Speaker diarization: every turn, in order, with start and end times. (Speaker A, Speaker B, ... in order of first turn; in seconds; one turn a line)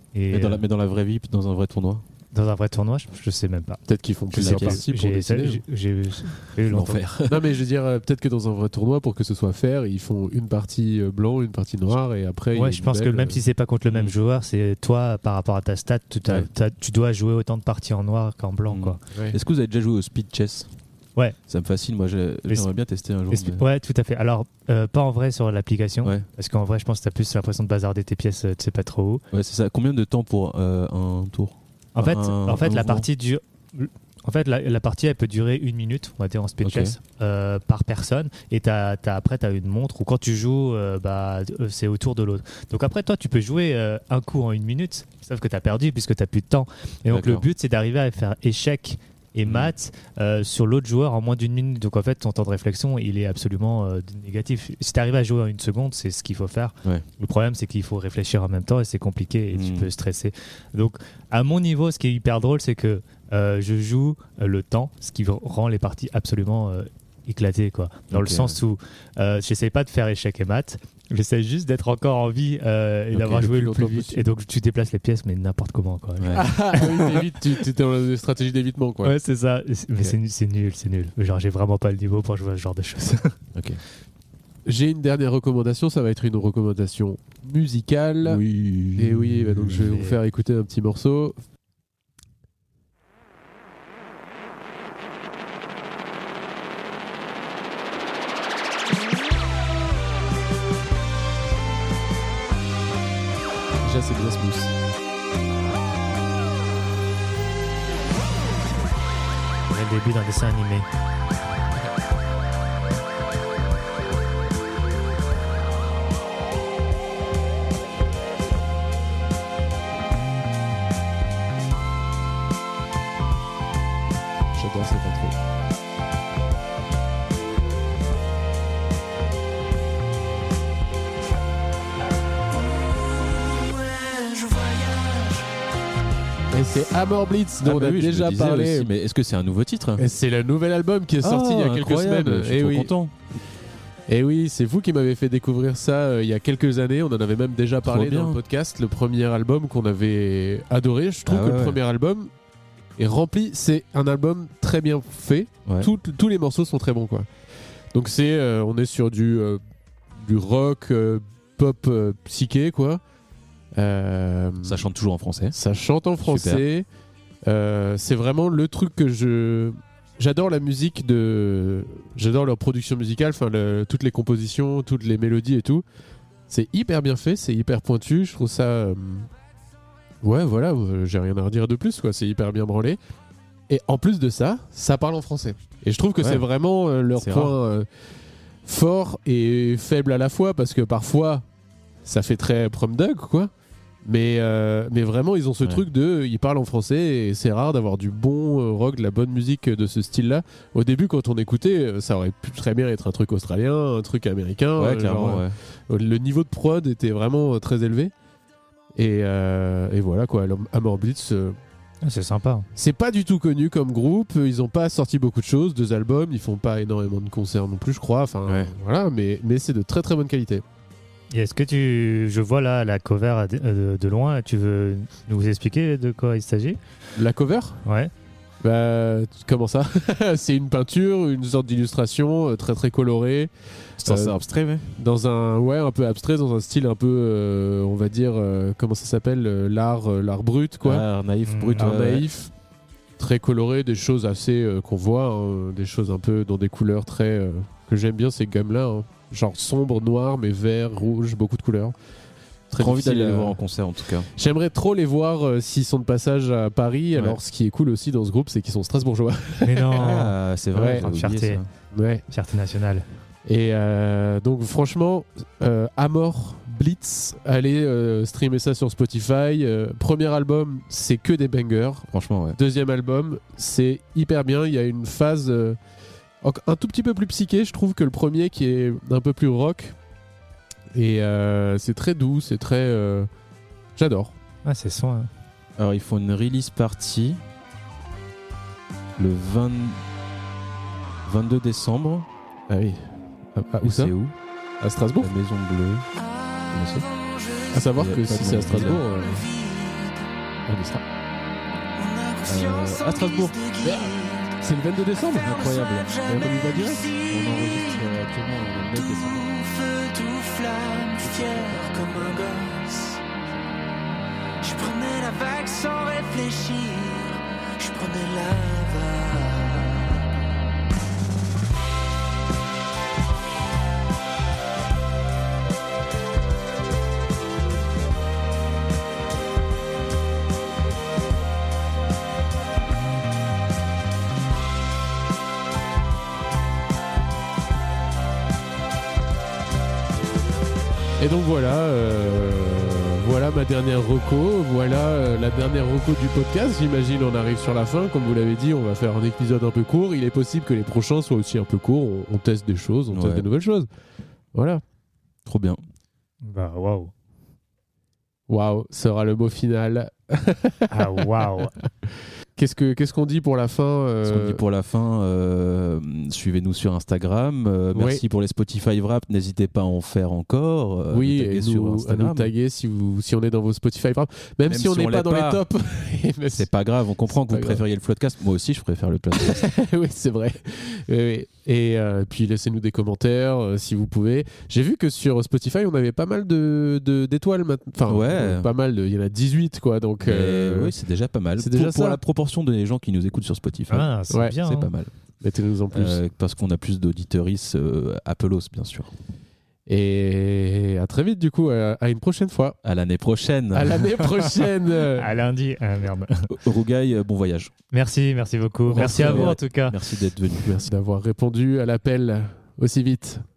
Speaker A: 0.1-0.6
Speaker B: 0.3-2.0
Speaker A: 2.3-3.8
Speaker C: 3.9-5.6
Speaker A: 4.3-7.0
Speaker B: 4.3-4.8
Speaker B: 6.7-7.5
Speaker C: 7.3-13.4
Speaker A: 12.6-19.0
Speaker B: 13.9-14.1
Speaker B: 18.7-20.7
Speaker C: 19.1-19.4
Speaker B: 21.5-23.6
Speaker A: 23.3-29.2
Speaker B: 29.3-33.1
Speaker A: 31.9-77.0
Speaker B: 36.6-37.0
Speaker B: 47.1-47.4
Speaker B: 49.5-49.7
Speaker B: 59.5-59.9
Speaker B: 68.1-68.6
Speaker C: 73.1-74.2
Speaker C: 76.3-79.1
Speaker A: 79.0-83.3
Speaker B: 83.5-83.8
Speaker C: 84.7-88.4
Speaker B: 88.2-89.9
Speaker C: 89.0-91.4
Speaker A: 89.7-90.2
Speaker C: 103.8-104.7
Speaker A: 109.7-110.9
Speaker C: 124.5-125.4
Speaker D: 133.8-135.4
Speaker C: 136.5-138.9
Speaker B: 137.6-140.1
Speaker C: 140.0-142.9
Speaker B: 141.2-143.1
Speaker C: 144.1-152.3
Speaker B: 147.8-148.4
Speaker B: 151.3-151.8
Speaker C: 153.0-157.3
Speaker B: 155.7-155.9
Speaker C: 157.9-159.6
Speaker C: 160.2-163.0
Speaker C: 163.8-164.8
Speaker B: 164.7-165.6
Speaker C: 165.5-166.9
Speaker B: 166.2-166.6
Speaker C: 167.4-175.8
Speaker C: 176.5-179.3
Speaker C: 180.2-183.0
Speaker C: 183.7-187.9
Speaker B: 187.2-187.5
Speaker C: 188.6-191.4
Speaker C: 192.0-193.5
Speaker C: 194.0-208.1
Speaker B: 204.8-205.6
Speaker C: 208.9-211.6
Speaker A: 212.0-212.7
Speaker C: 212.8-220.6
Speaker A: 221.3-226.8
Speaker C: 227.2-227.8
Speaker A: 227.8-228.1
Speaker C: 228.6-234.3
Speaker B: 234.0-234.9
Speaker C: 235.0-241.1
Speaker B: 240.8-242.3
Speaker A: 241.5-241.9
Speaker C: 241.8-242.5
Speaker C: 243.2-251.9
Speaker C: 252.7-253.6
Speaker B: 252.8-254.3
Speaker C: 254.3-260.1
Speaker A: 259.6-260.4
Speaker B: 260.0-261.7
Speaker C: 260.7-261.1
Speaker A: 260.9-261.6
Speaker C: 261.9-262.2
Speaker A: 262.3-263.1
Speaker C: 263.5-275.8
Speaker B: 272.1-272.6
Speaker C: 276.4-280.0
Speaker C: 280.9-283.3
Speaker C: 284.0-284.4
Speaker A: 284.6-285.3
Speaker B: 285.8-287.4
Speaker B: 289.2-290.0
Speaker B: 291.3-292.3
Speaker C: 292.7-294.1
Speaker B: 293.8-294.3
Speaker C: 294.8-295.3
Speaker B: 295.2-296.1
Speaker B: 296.7-297.1
Speaker D: 296.7-297.8
Speaker C: 297.7-299.5
Speaker B: 297.9-299.1
Speaker D: 299.3-300.2
Speaker C: 300.7-301.0
Speaker D: 302.0-304.6
Speaker B: 302.4-303.6
Speaker C: 303.8-305.7
Speaker D: 305.3-308.2
Speaker B: 305.3-306.5
Speaker C: 306.2-307.1
Speaker B: 307.3-309.5
Speaker D: 308.9-313.2
Speaker B: 311.2-312.4
Speaker D: 314.6-320.3
Speaker C: 341.2-353.9
Speaker B: 353.1-353.4
Speaker C: 354.5-354.8
Speaker B: 355.5-355.8
Speaker A: 356.4-357.1
Speaker C: 358.5-364.6
Speaker A: 360.9-361.7
Speaker B: 364.2-372.5
Speaker C: 367.9-368.2
Speaker C: 371.1-376.7
Speaker B: 374.7-375.6
Speaker B: 376.5-379.7
Speaker C: 377.3-377.8
Speaker C: 379.4-390.9
Speaker B: 388.1-388.7
Speaker B: 390.2-395.1
Speaker C: 391.6-392.2
Speaker A: 393.9-394.9
Speaker C: 394.3-394.6
Speaker C: 395.4-396.2
Speaker B: 395.9-399.1
Speaker C: 399.9-402.8
Speaker B: 402.8-404.2
Speaker C: 403.7-405.4
Speaker A: 405.1-406.5
Speaker B: 406.5-407.7
Speaker A: 407.9-410.0
Speaker B: 408.9-410.8
Speaker C: 408.9-409.6
Speaker C: 410.6-413.4